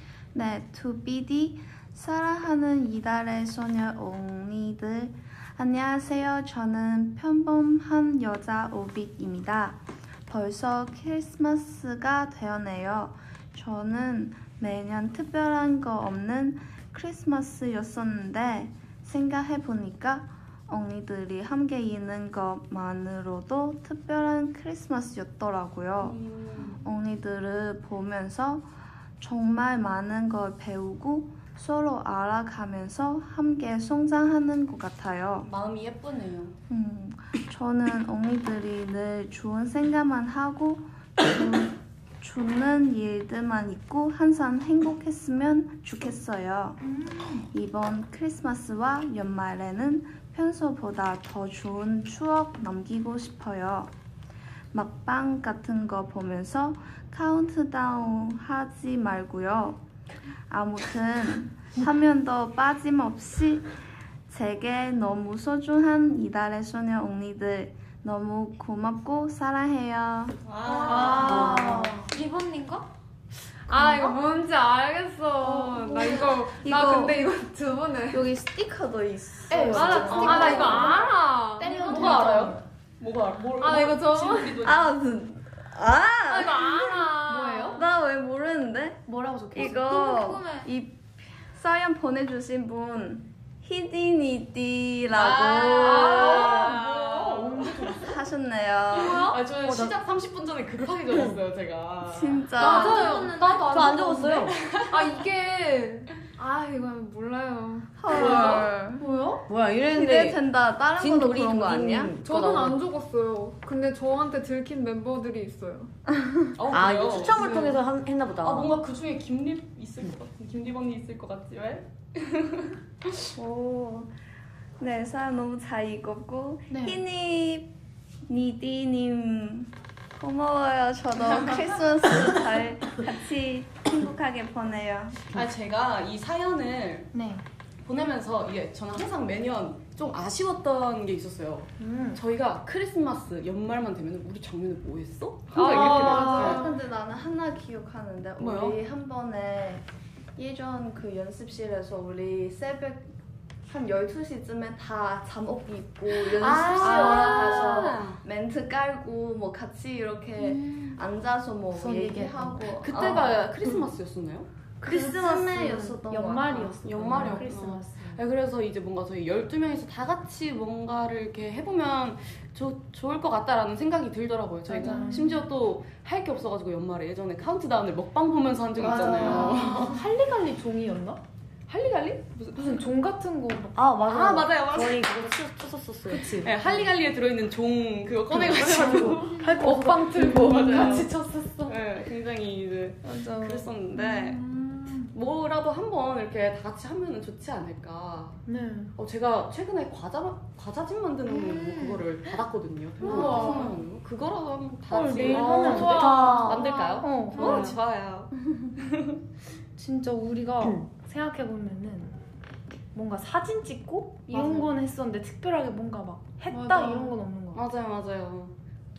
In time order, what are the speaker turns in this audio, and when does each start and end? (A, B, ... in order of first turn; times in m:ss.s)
0:00.3-0:26.2 A
0:26.0-0:26.8 B
0:26.7-0:28.7 A
0:29.2-0:35.5 A
0:35.4-0:36.6 B
0:36.7-0:46.8 A
0:46.8-0:47.5 C
0:47.5-0:53.9 A
0:54.7-0:59.8 A
1:00.5-1:03.7 A
1:04.3-1:10.4 A
1:10.4-1:11.5 B
1:10.8-1:12.9 D
1:10.8-1:11.8 E
1:10.8-1:12.1 C
1:10.9-1:11.6 A
1:11.2-1:11.9 F
1:13.7-1:18.3 E
1:15.4-1:17.2 A
1:18.1-1:21.0 A
1:19.5-1:21.1 C
1:19.5-1:22.2 E
1:20.0-1:21.0 D
1:20.1-1:20.5 B
1:21.6-1:22.5 D
1:21.6-1:22.6 C
1:21.8-1:24.9 B
1:23.6-1:24.6 E
1:24.6-1:27.1 A
1:26.3-1:27.9 E
1:27.2-1:27.8 C
1:27.7-1:36.7 A
1:29.1-1:29.8 B
1:29.5-1:30.7 D
1:35.1-1:38.0 B
1:35.8-1:38.1 C
1:37.9-1:39.4 A
1:38.9-1:45.1 B
1:39.0-1:39.4 D
1:39.6-1:39.9 F
1:42.0-1:43.1 A
1:42.6-1:43.4 E
1:42.6-1:44.1 D
1:43.6-1:44.5 F
1:44.9-1:48.6 E
1:48.0-1:49.0 A
1:48.1-1:49.1 B
1:49.0-1:49.4 C
1:49.4-1:50.4 F
1:49.8-1:52.2 A
1:50.9-1:52.8 F
1:52.2-1:55.9 E
1:56.6-1:57.6 B
1:56.7-1:58.7 F
1:57.3-1:57.8 E
1:58.4-2:02.7 B
2:03.4-2:04.1 A
2:04.8-2:07.7 A
2:06.7-2:07.0 C
2:08.2-2:15.2 A
2:15.3-2:17.1 B
2:17.1-2:17.4 C
2:17.8-2:26.6 B
2:21.8-2:22.2 C
2:25.5-2:26.6 C
2:25.6-2:29.8 A
2:25.7-2:26.7 E
2:28.4-2:28.8 B
2:30.4-2:33.1 A
2:33.7-2:43.4 A
2:36.1-2:38.2 B
2:36.8-2:37.6 C
2:40.4-2:41.0 D
2:41.7-2:43.0 C
2:42.8-2:44.5 B
2:44.8-2:47.4 A
2:44.8-2:45.7 F
2:45.9-2:48.2 C
2:46.8-3:00.0 B
2:54.7-2:55.4 C
2:58.8-3:01.2 C
2:59.2-2:59.9 E
3:01.7-3:02.8 B
3:02.5-3:04.5 C
3:03.7-3:06.6 F
3:04.1-3:05.1 B
3:06.2-3:11.1 B
3:08.4-3:09.2 F
3:08.9-3:11.8 C
3:11.6-3:14.4 B
3:13.0-3:15.1 C
3:14.5-3:15.0 E
3:15.1-3:18.4 B
3:18.4-3:18.9 C
3:19.0-3:29.1 B
3:21.3-3:22.1 D
3:23.0-3:23.8 E
3:23.1-3:23.4 C
3:23.1-3:23.5 D
3:24.9-3:26.4 C
3:25.2-3:26.7 F
3:25.7-3:26.4 E
3:26.5-3:27.6 D
3:27.0-3:27.7 C
3:27.4-3:27.8 E
3:29.8-3:32.2 C
3:30.6-3:30.9 F
3:32.9-3:37.6 C
3:34.3-3:34.6 E
3:36.5-3:37.1 E
3:37.5-3:38.5 B